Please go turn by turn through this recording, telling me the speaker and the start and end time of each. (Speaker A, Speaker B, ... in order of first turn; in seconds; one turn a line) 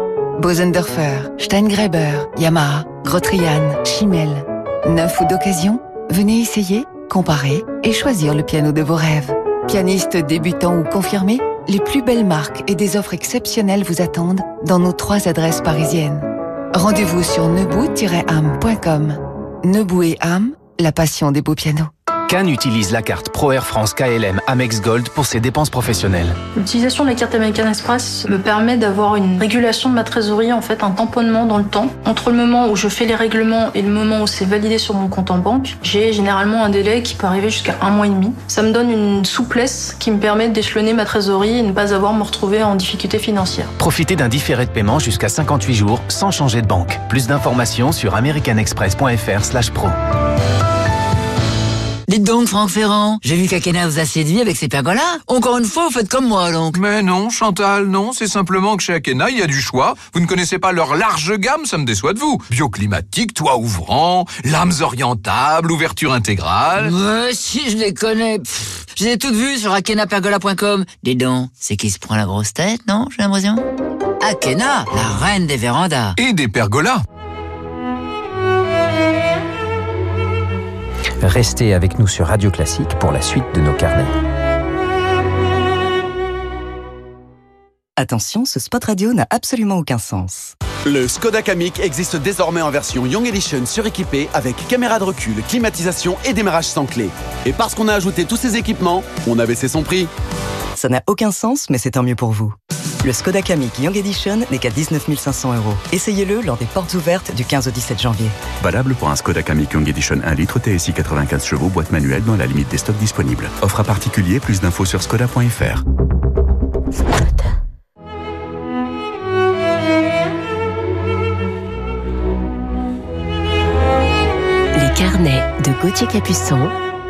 Speaker A: 0.4-21.9
Speaker B: 22.3-26.4
Speaker C: 26.6-43.7
Speaker B: 43.8-50.0
Speaker D: 52.1-56.8
Speaker E: 56.7-67.0
Speaker D: 66.8-73.6
Speaker D: 74.2-76.2
Speaker E: 76.2-77.0
Speaker F: 81.2-84.1
Speaker G: 88.0-90.5
Speaker H: 90.8-100.1
Speaker G: 100.8-108.3
Speaker I: 108.6-115.8
Speaker J: 124.7-126.7